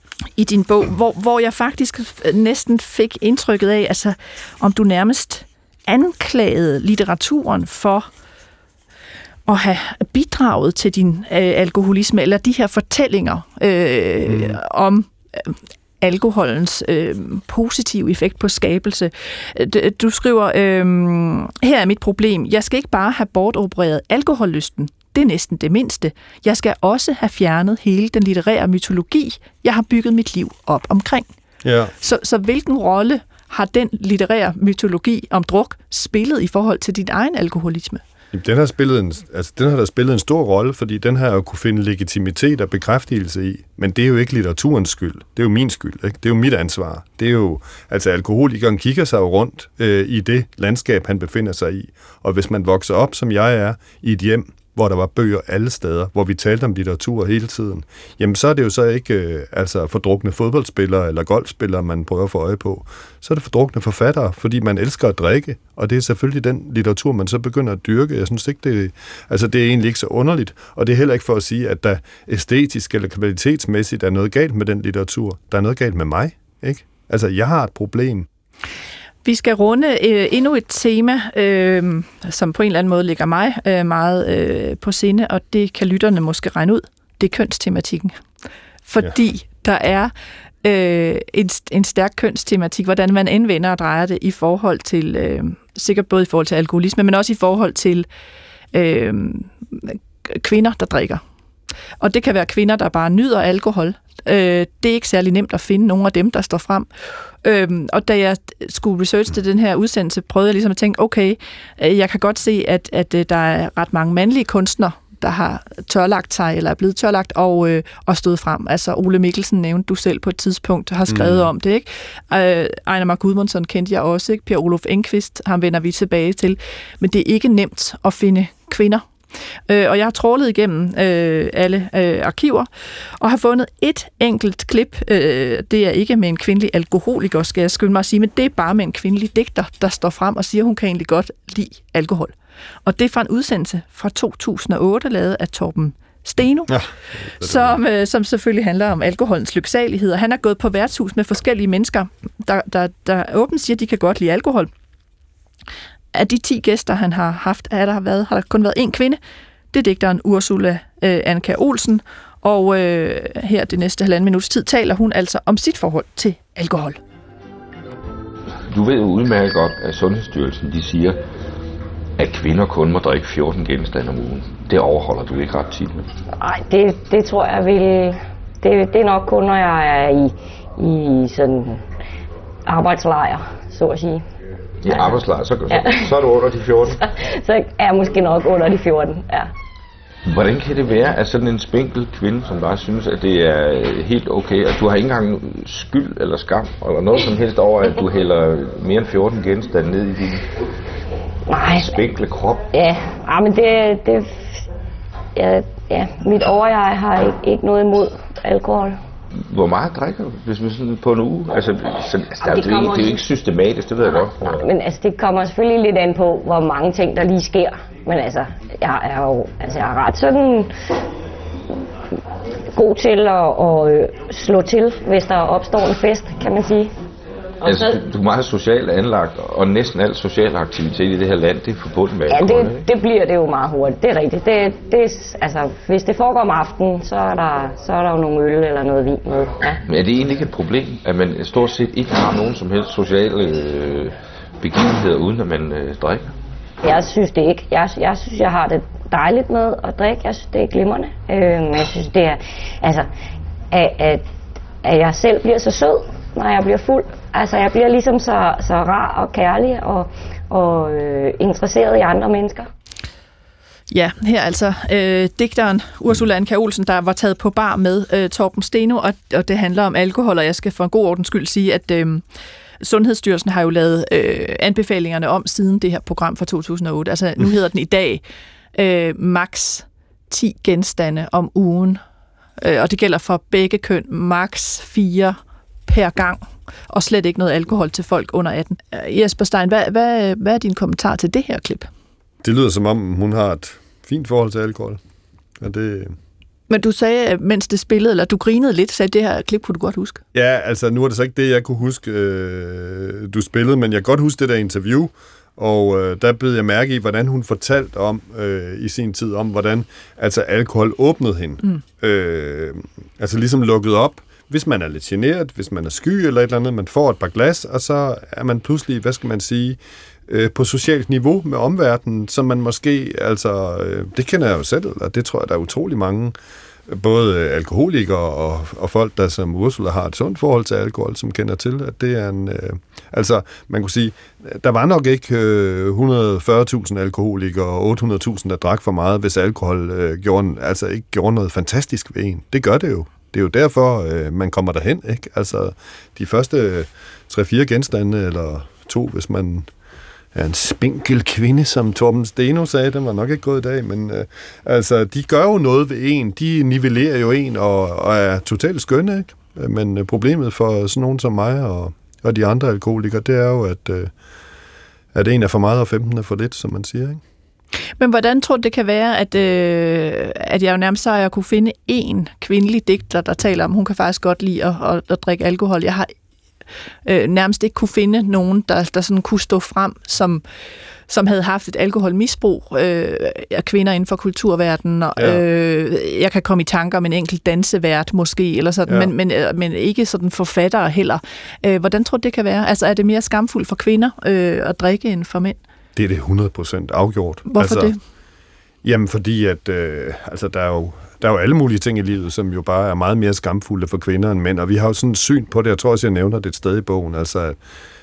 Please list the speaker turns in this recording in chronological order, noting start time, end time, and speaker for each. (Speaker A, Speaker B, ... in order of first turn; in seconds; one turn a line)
Speaker A: 0.4-8.1
Speaker A: 9.5-31.3
Speaker B: 14.3-14.6
Speaker B: 31.6-31.9
Speaker A: 32.0-38.0
Speaker B: 38.3-78.3
Speaker A: 79.2-88.2
Speaker A: 88.9-90.1
Speaker A: 90.6-98.1
Speaker A: 98.7-101.2
Speaker A: 102.0-106.9
Speaker A: 107.4-129.1
Speaker B: 121.1-121.5
Speaker A: 129.7-132.7
Speaker A: 133.2-146.8
Speaker B: 146.7-147.8
Speaker A: 147.4-154.7
Speaker A: 156.1-159.2
Speaker A: 159.7-167.0
Speaker C: 168.7-171.2
Speaker C: 172.2-176.1
Speaker D: 176.4-181.8
Speaker D: 182.7-184.2
Speaker C: 184.8-187.0
Speaker D: 184.9-185.1
Speaker D: 185.7-186.0
Speaker D: 187.1-189.5
Speaker C: 190.3-200.5
Speaker D: 201.5-201.9
Speaker C: 201.8-202.7
Speaker D: 202.7-204.7
Speaker D: 205.4-209.0
Speaker C: 209.5-214.6
Speaker D: 212.4-213.2
Speaker D: 214.0-220.7
Speaker D: 222.7-226.9
Speaker C: 227.6-232.8
Speaker D: 227.7-228.0
Speaker D: 232.3-239.8
Speaker C: 239.9-246.3
Speaker D: 246.8-253.1
Speaker D: 253.7-254.2
Speaker D: 254.8-262.7
Speaker A: 263.9-272.2
Speaker A: 272.8-278.2
Speaker A: 278.8-282.0
Speaker A: 282.6-291.9
Speaker B: 292.4-295.0
Speaker B: 295.6-296.1
Speaker A: 296.7-300.2
Speaker B: 300.3-326.4
Speaker B: 326.9-349.7
Speaker B: 350.3-364.1
Speaker B: 365.1-367.2
Speaker A: 368.0-376.1
Speaker A: 377.1-380.4
Speaker A: 381.1-395.6
Speaker B: 385.2-385.4
Speaker B: 388.9-389.1
Speaker B: 396.0-397.9
Speaker A: 397.5-398.0
Speaker B: 398.8-407.6